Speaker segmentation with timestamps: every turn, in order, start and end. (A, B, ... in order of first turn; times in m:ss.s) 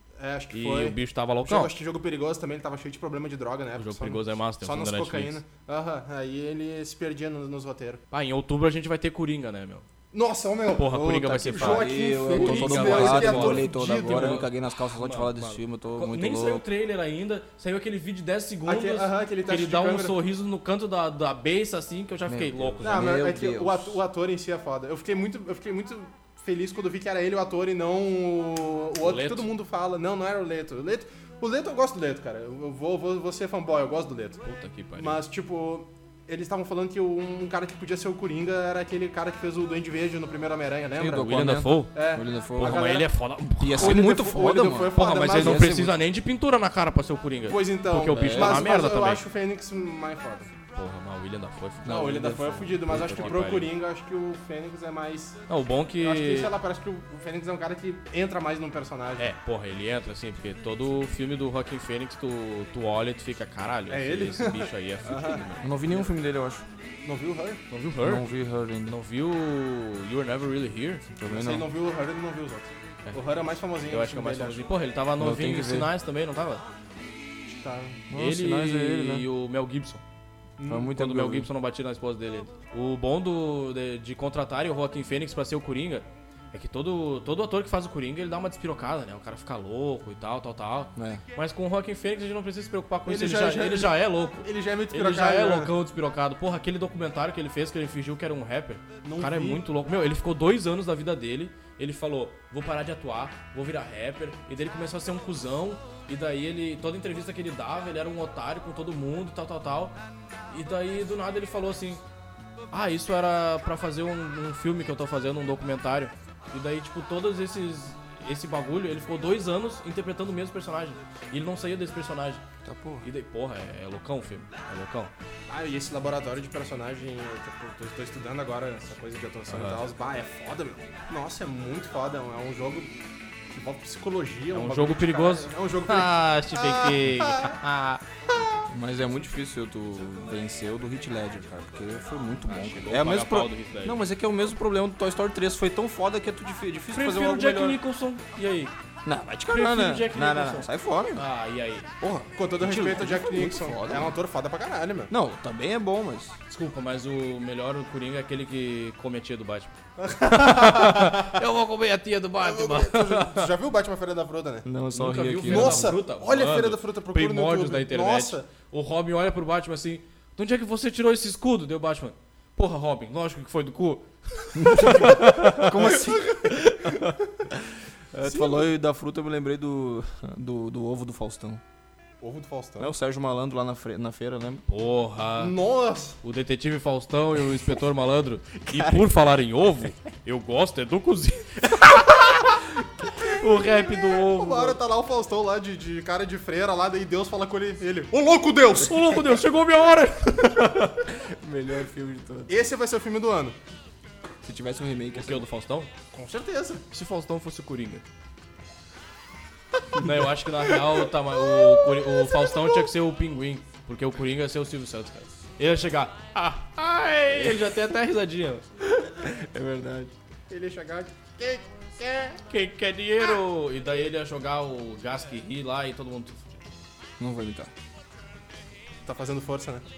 0:00.2-0:08.0 A
0:00.5-0:01.7 B
0:03.8-0:05.4 B
0:08.1-0:09.8 B
0:10.1-0:14.4 A
0:10.7-0:23.1 B
0:10.9-0:16.6 C
0:18.6-0:20.2 A
0:22.3-0:24.0 C
0:22.8-0:34.4 A
0:29.0-0:29.4 B
0:34.4-0:35.2 B
0:35.0-0:41.4 A
0:41.0-0:43.0 C
0:41.2-0:41.9 B
0:41.9-0:43.1 A
0:42.6-0:44.0 B
0:43.6-0:45.9 C
0:43.8-0:45.8 A
0:44.9-0:49.2 B
0:47.4-0:50.5 A
0:48.1-0:48.7 C
0:50.7-0:53.7 B
0:51.8-0:53.4 C
0:51.8-0:55.4 A
0:55.5-0:56.5 B
0:56.0-0:59.3 A
0:59.2-1:05.7 B
1:03.9-1:05.5 A
1:05.6-1:06.6 C
1:07.0-1:07.6 A
1:07.7-1:08.2 B
1:08.0-1:09.0 C
1:08.9-1:11.0 B
1:11.2-1:11.7 C
1:11.3-1:14.7 A
1:13.9-1:16.6 B
1:15.2-1:15.9 C
1:17.5-1:18.0 A
1:18.1-1:19.2 C
1:18.1-1:20.0 B
1:20.6-1:20.9 A
1:20.6-1:21.5 C
1:20.9-1:50.0 B
1:31.0-1:31.2 C
1:33.0-1:35.7 A
1:39.0-1:39.6 A
1:50.5-1:52.0 B
1:52.7-2:02.4 B
2:02.6-2:03.0 C
2:03.0-2:05.1 B
2:05.5-2:12.9 A
2:09.5-2:09.8 B
2:13.5-2:17.6 A
2:14.5-2:18.0 B
2:18.3-2:18.6 A
2:18.7-2:27.8 C
2:22.5-2:24.0 B
2:26.9-2:28.7 B
2:29.0-2:31.2 C
2:29.5-2:31.9 B
2:32.0-2:34.2 C
2:32.3-2:35.1 A
2:35.1-2:36.4 C
2:36.5-2:43.5 B
2:40.0-2:41.4 A
2:42.4-2:44.7 A
2:44.6-2:46.0 C
2:44.9-2:55.9 B
2:45.4-2:48.5 A
2:54.6-2:56.5 C
2:55.8-2:57.4 A
2:56.4-2:57.1 B
2:58.1-3:01.6 C
2:58.2-2:58.7 A
3:02.2-3:02.9 A
3:02.8-3:04.6 C
3:04.7-3:05.5 B
3:05.4-3:06.2 A
3:06.2-3:14.8 B
3:08.7-3:09.1 C
3:13.5-3:19.4 A
3:18.8-3:21.0 B
3:21.1-3:22.5 C
3:22.5-3:23.6 A
3:24.4-3:25.4 C
3:25.1-3:25.9 B
3:26.1-3:26.8 A
3:26.9-3:28.0 B
3:29.9-3:38.6 B
3:31.5-3:32.8 A
3:39.0-3:40.1 C
3:40.5-3:42.4 A
3:42.5-3:46.6 B
3:47.2-3:47.7 C
3:49.0-3:49.8 A